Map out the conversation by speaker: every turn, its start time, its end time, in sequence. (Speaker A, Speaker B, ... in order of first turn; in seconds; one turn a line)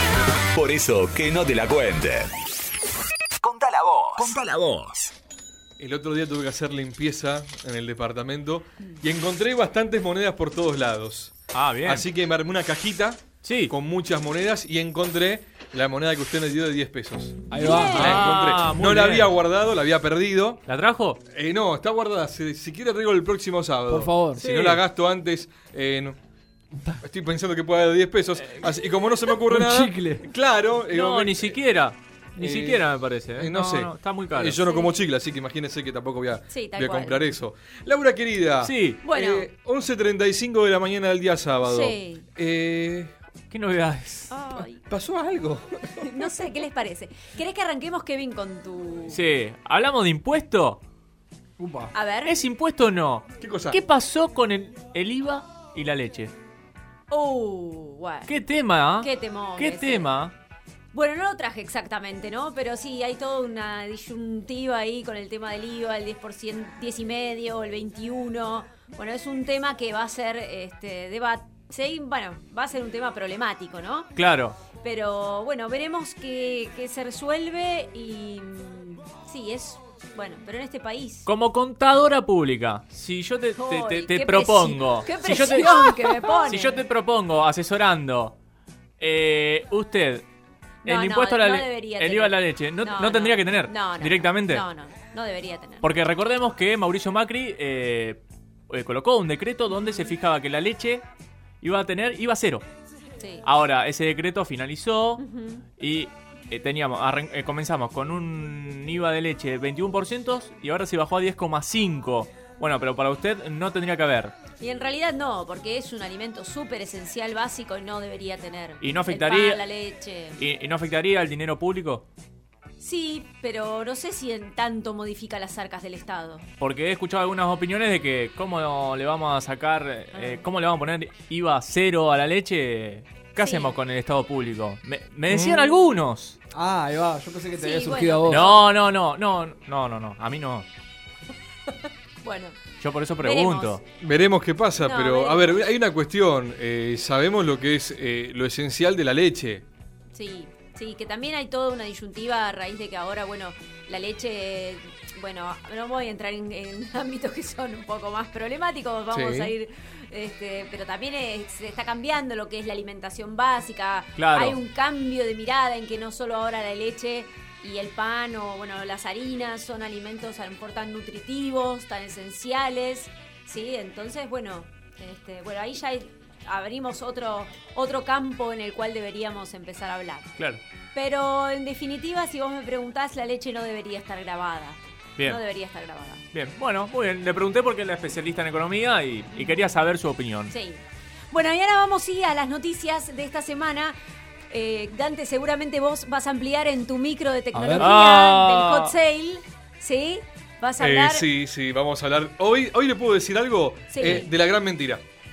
Speaker A: 0.5-2.3
Speaker A: 3.4-5.0
Speaker B: 5.8-20.6
Speaker C: 11.5-12.1
Speaker C: 13.4-13.7
Speaker D: 17.5-18.3
Speaker E: 17.6-18.3
Speaker C: 17.6-19.4
Speaker C: 20.7-21.2
Speaker B: 21.3-26.2
Speaker D: 23.9-24.4
Speaker C: 24.3-24.8
Speaker B: 27.0-31.6
Speaker D: 29.4-30.2
Speaker C: 30.9-34.6
Speaker B: 32.4-43.1
Speaker E: 34.6-34.9
Speaker E: 36.5-37.2
Speaker C: 38.6-39.0
Speaker E: 39.0-39.5
Speaker E: 41.6-42.2
Speaker C: 43.5-44.3
Speaker E: 44.3-44.8
Speaker B: 44.6-46.3
Speaker E: 45.9-49.2
Speaker C: 49.1-50.8
Speaker D: 51.6-51.9
Speaker E: 51.9-52.4
Speaker C: 52.2-56.3
Speaker B: 53.4-53.8
Speaker E: 57.1-58.3
Speaker C: 58.2-60.3
Speaker E: 59.0-60.1
Speaker E: 60.9-74.1
Speaker C: 74.1-74.6
Speaker E: 74.8-81.3
Speaker C: 81.2-88.4
Speaker E: 83.6-86.8
Speaker C: 89.0-90.2
Speaker C: 90.8-94.6
Speaker E: 90.8-95.8
Speaker C: 95.8-101.0
Speaker C: 101.6-102.6
Speaker E: 103.2-103.4
Speaker C: 103.4-105.2
Speaker E: 105.2-105.7
Speaker C: 105.8-114.3
Speaker E: 114.6-120.4
Speaker C: 118.8-119.6
Speaker C: 120.4-122.0
Speaker E: 122.8-126.5
Speaker C: 126.6-136.4
Speaker E: 130.1-130.4
Speaker E: 133.4-133.8
Speaker B: 135.3-135.8
Speaker D: 136.5-138.4
Speaker E: 137.6-138.7
Speaker C: 138.2-140.7
Speaker E: 142.2-142.6
Speaker C: 142.8-143.8
Speaker E: 143.2-143.8
Speaker B: 144.0-149.7
Speaker E: 144.8-145.6
Speaker E: 150.1-180.3
Speaker B: 159.1-159.5
Speaker C: 164.2-164.6
Speaker E: 180.9-186.2
Speaker C: 186.3-190.5
Speaker E: 190.5-193.9
Speaker E: 194.5-201.2
Speaker D: 197.5-197.9
Speaker C: 197.8-198.9
Speaker B: 200.8-205.0
Speaker E: 203.9-204.3